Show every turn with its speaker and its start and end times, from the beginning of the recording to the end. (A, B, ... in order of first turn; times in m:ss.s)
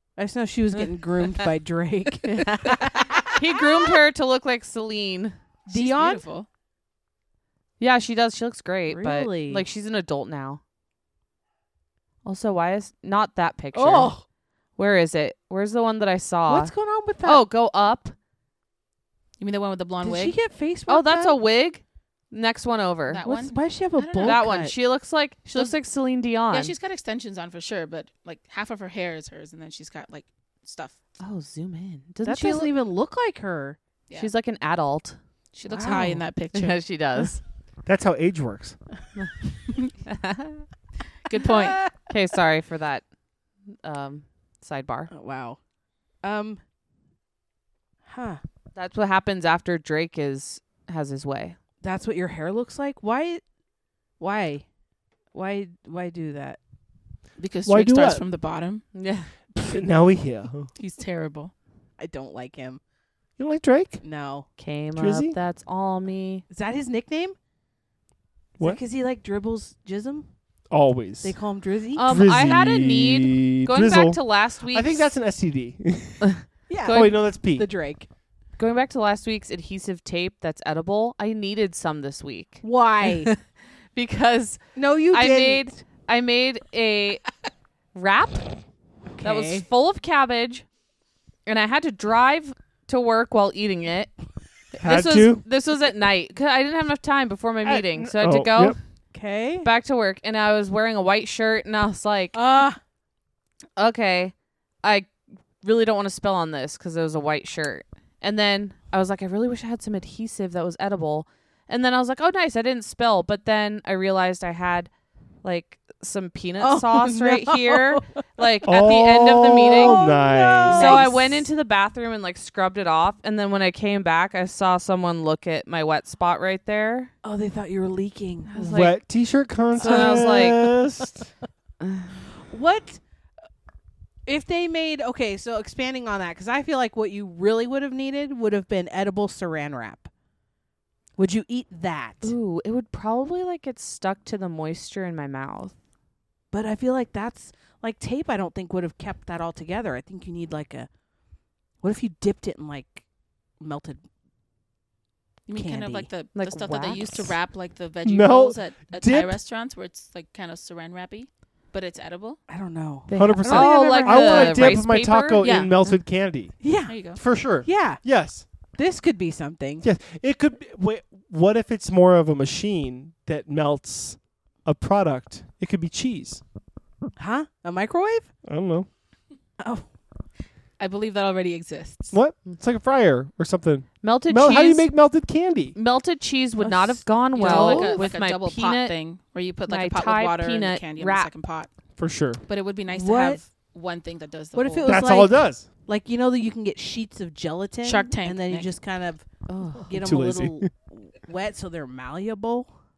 0:00.2-0:03.3 A
0:02.3-0:05.4 B
0:05.7-0:06.2 A
0:05.7-0:06.5 C
0:07.8-0:10.6 B
0:08.9-0:09.6 A
0:12.2-0:14.2 B
0:13.7-0:14.2 A
0:14.8-0:18.1 B
0:16.5-0:17.4 A
0:19.4-0:20.4 C
0:20.0-0:21.4 A
0:20.9-0:23.2 B
0:23.1-0:24.4 C
0:23.2-0:24.7 A
0:24.2-0:26.7 B
0:26.5-0:31.0 C
0:31.2-0:32.7 B
0:32.2-0:33.8 A
0:34.1-0:35.2 B
0:35.5-0:36.8 C
0:35.6-0:36.2 A
0:36.5-0:37.4 B
0:37.8-0:38.8 D
0:40.0-0:40.6 B
0:41.3-0:41.8 C
0:41.9-0:43.0 B
0:43.8-0:45.1 B
0:45.1-0:45.6 A
0:46.2-0:46.6 A
0:48.0-0:48.4 A
0:48.7-0:51.6 B
0:51.8-0:53.4 A
0:54.2-0:54.6 A
0:55.3-0:56.6 A
0:57.4-0:58.8 C
0:57.6-0:58.2 D
0:58.9-0:59.3 B
0:59.6-1:00.7 D
1:00.8-1:01.5 C
1:02.0-1:02.8 A
1:03.4-1:04.0 D
1:04.0-1:04.4 A
1:04.6-1:06.4 B
1:04.9-1:05.4 D
1:06.5-1:07.4 A
1:08.6-1:10.3 A
1:10.7-1:11.4 D
1:11.2-1:12.0 A
1:11.9-1:15.1 B
1:12.0-1:16.3 D
1:16.7-1:18.1 A
1:16.8-1:17.1 B
1:16.9-1:17.7 D
1:18.6-1:23.4 B
1:22.6-1:23.3 A
1:23.9-1:27.2 B
1:24.7-1:25.8 A
1:27.9-1:28.5 B
1:29.1-1:29.6 A
1:29.2-1:30.6 B
1:31.4-1:34.1 B
1:34.7-1:38.8 B
1:34.8-1:35.4 D
1:37.6-1:38.8 D
1:39.1-1:39.7 A
1:39.6-1:42.4 B
1:42.3-1:42.8 A
1:43.8-1:54.9 B
1:55.4-2:00.0 B
1:56.6-1:58.2 A
1:58.6-2:01.1 D
1:59.7-2:01.5 A
2:00.7-2:07.1 B
2:07.2-2:08.8 A
2:08.5-2:09.0 B
2:08.7-2:11.2 D
2:09.8-2:10.8 B
2:09.8-2:10.5 A
2:12.4-2:13.0 A
2:14.2-2:20.1 A
2:21.2-2:22.3 A
2:22.2-2:25.7 B
2:26.5-2:30.9 A
2:31.8-2:33.0 A
2:33.6-2:34.0 A
2:35.5-2:42.4 C
2:35.5-2:36.1 A
2:36.3-2:37.3 B
2:38.0-2:39.4 D
2:42.5-2:44.8 A
2:43.1-2:45.6 B
2:43.1-2:46.6 D
2:45.4-2:45.7 C
2:46.6-2:46.9 A
2:46.9-2:47.2 C
2:47.1-2:48.4 D
2:47.6-2:48.0 A
2:48.7-2:49.8 A
2:49.8-2:56.4 D
2:57.2-2:58.3 A
2:58.4-2:58.9 D
2:59.6-2:59.9 A
3:00.8-3:02.2 C
3:02.1-3:05.8 D
3:04.0-3:04.8 B
3:05.7-3:08.9 B
3:06.6-3:08.1 A
3:07.3-3:11.7 C
3:09.7-3:11.3 B
3:12.0-3:12.4 D
3:12.5-3:15.0 C
3:12.9-3:13.4 A
3:14.5-3:19.3 A
3:14.8-3:15.6 D
3:17.8-3:18.7 C
3:19.5-3:19.9 B
3:19.8-3:22.7 A
3:20.0-3:20.7 D